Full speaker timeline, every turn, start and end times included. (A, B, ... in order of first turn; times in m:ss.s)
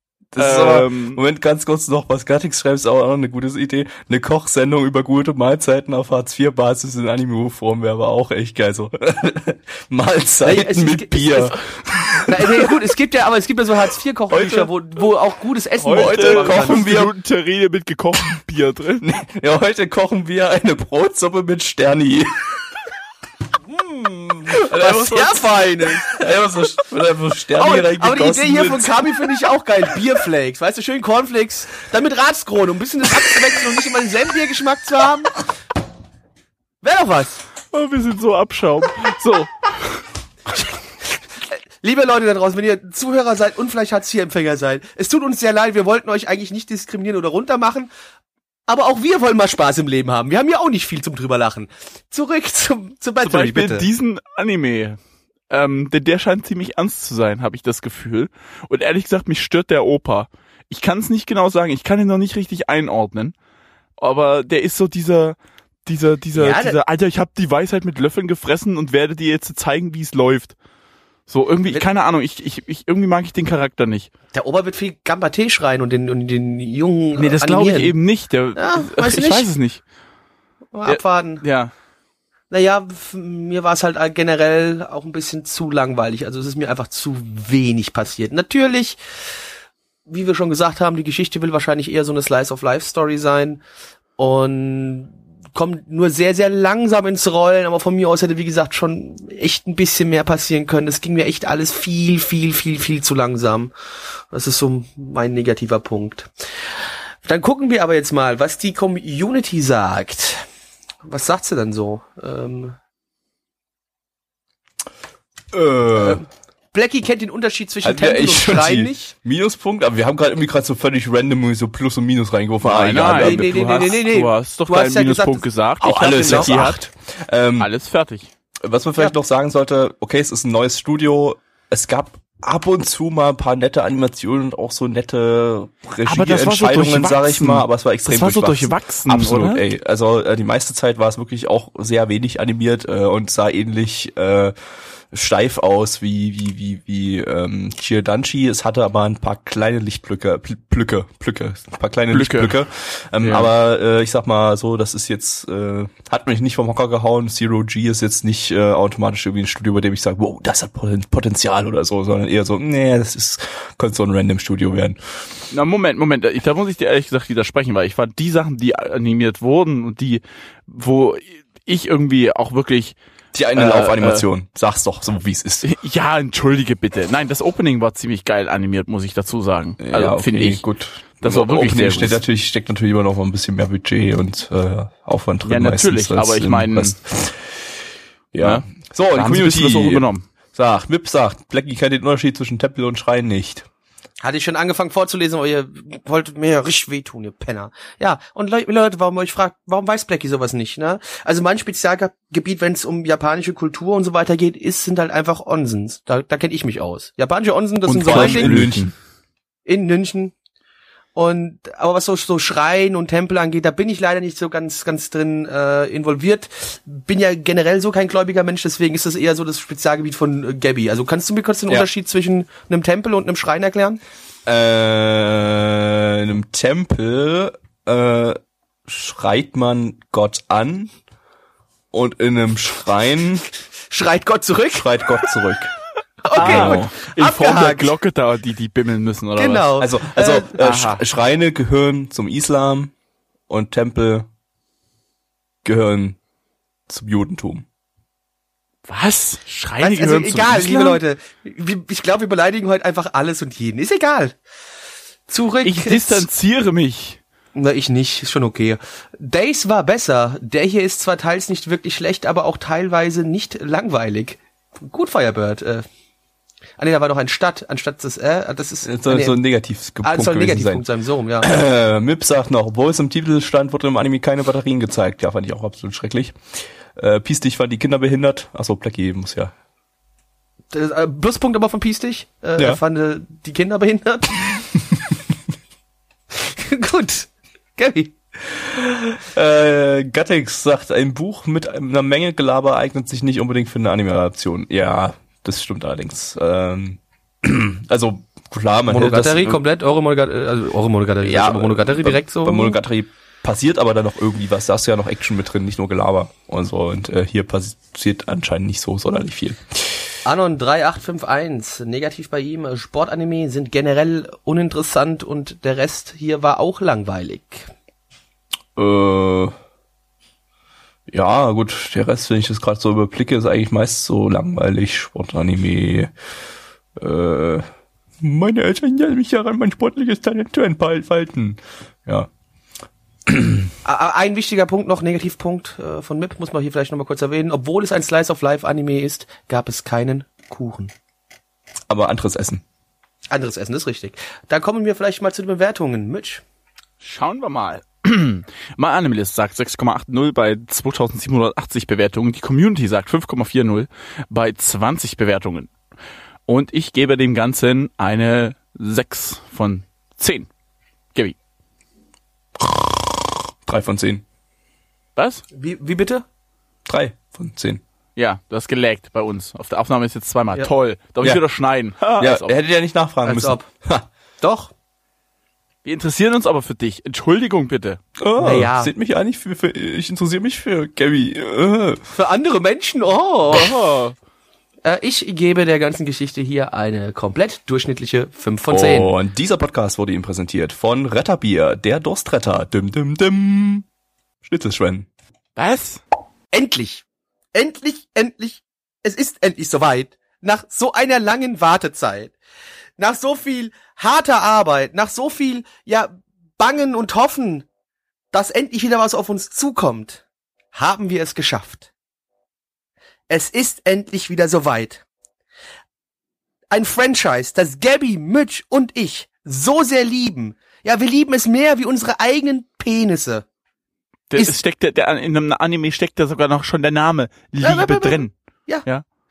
0:00.3-0:12.7 A
0:00.4-0:01.2 B
0:10.4-0:11.5 C
0:12.2-0:17.0 C
0:14.3-0:14.7 A
0:15.8-0:19.1 B
0:15.8-0:17.1 A
0:19.0-0:22.4 A
0:23.8-0:26.2 C
0:24.6-0:29.3 A
0:27.6-0:35.4 C
0:36.8-0:37.4 C
0:37.7-0:40.0 B
0:41.5-0:47.9 C
0:48.7-0:53.8 C
0:53.2-0:55.0 B
0:55.5-1:03.3 B
1:04.0-1:10.6 B
1:06.4-1:06.8 C
1:11.3-1:14.1 B
1:14.3-1:17.9 C
1:17.2-1:19.8 B
1:18.6-1:19.5 C
1:20.7-1:21.4 C
1:20.8-1:21.7 B
1:22.5-1:29.0 C
1:30.1-1:33.6 C
1:34.2-1:43.7 C
1:44.3-1:46.3 C
1:47.2-1:50.4 C
1:51.0-1:52.8 C
1:55.5-1:56.2 A
1:56.0-1:59.1 C
1:57.8-2:04.0 A
2:02.6-2:06.7 B
2:03.1-2:05.4 C
2:05.8-2:07.7 A
2:06.1-2:06.8 C
2:07.6-2:08.3 B
2:08.6-2:24.5 A
2:16.0-2:19.6 B
2:25.1-2:45.0 A
2:32.1-2:32.5 B
2:33.2-2:33.5 B
2:45.5-2:53.0 B
2:53.3-2:55.7 A
2:53.5-2:54.2 B
2:55.6-3:00.6 B
2:59.8-3:07.6 A
3:01.2-3:02.2 B
3:05.4-3:07.0 B
3:08.3-3:13.7 A
3:08.4-3:10.2 B
3:14.2-3:28.7 C
3:27.9-3:28.9 A
3:27.9-3:28.9 B
3:29.6-3:30.3 C
3:31.1-3:44.0 C
3:44.4-3:50.9 A
3:51.9-3:53.4 A
3:53.9-3:54.9 C
3:54.7-3:55.7 A
3:56.2-3:57.9 C
3:56.3-3:59.6 B
3:56.4-3:56.9 A
3:59.4-4:00.6 C
3:59.8-4:02.9 A
4:00.6-4:01.0 B
4:03.5-4:04.3 A
4:05.6-4:06.2 A
4:06.9-4:07.6 A
4:08.9-4:11.0 B
4:09.8-4:14.4 C
4:15.3-4:16.2 C
4:15.6-4:17.2 B
4:17.5-4:25.8 C
4:26.8-4:29.4 C
4:28.8-4:30.8 A
4:30.0-4:31.5 C
4:31.4-4:39.5 A
4:40.7-4:44.6 C
4:46.3-4:48.1 C
4:48.5-4:59.6 A
4:58.9-5:02.8 C
5:01.2-5:10.0 A
5:10.2-5:17.7 C
5:18.8-5:19.5 A
5:21.1-5:26.1 A
5:27.0-5:27.6 A
5:28.2-5:32.3 A
5:33.3-5:33.7 A
5:33.8-5:40.9 C
5:41.9-5:42.6 A
5:43.3-5:46.4 C
5:47.0-5:55.7 B
5:56.5-6:00.5 B
6:02.6-6:04.2 A
6:05.2-6:05.4 B
6:05.5-6:06.2 C
6:06.9-6:07.8 A
6:08.2-6:12.6 B
6:12.2-6:14.1 A
6:13.2-6:13.7 C
6:14.4-6:14.7 C
6:15.8-6:18.0 B
6:18.2-6:22.0 A
6:18.4-6:18.9 C
6:22.1-6:23.7 C
6:23.5-6:24.2 B
6:24.8-6:29.1 C
6:28.7-6:33.8 A
6:34.4-6:35.1 A
6:35.6-6:36.0 B
6:36.5-6:42.3 C
6:43.0-6:47.6 C
6:48.3-6:50.2 C
6:50.7-6:51.9 C
6:53.3-6:55.0 C
6:56.7-7:03.4 C
7:04.3-7:08.3 B
7:07.6-7:08.8 C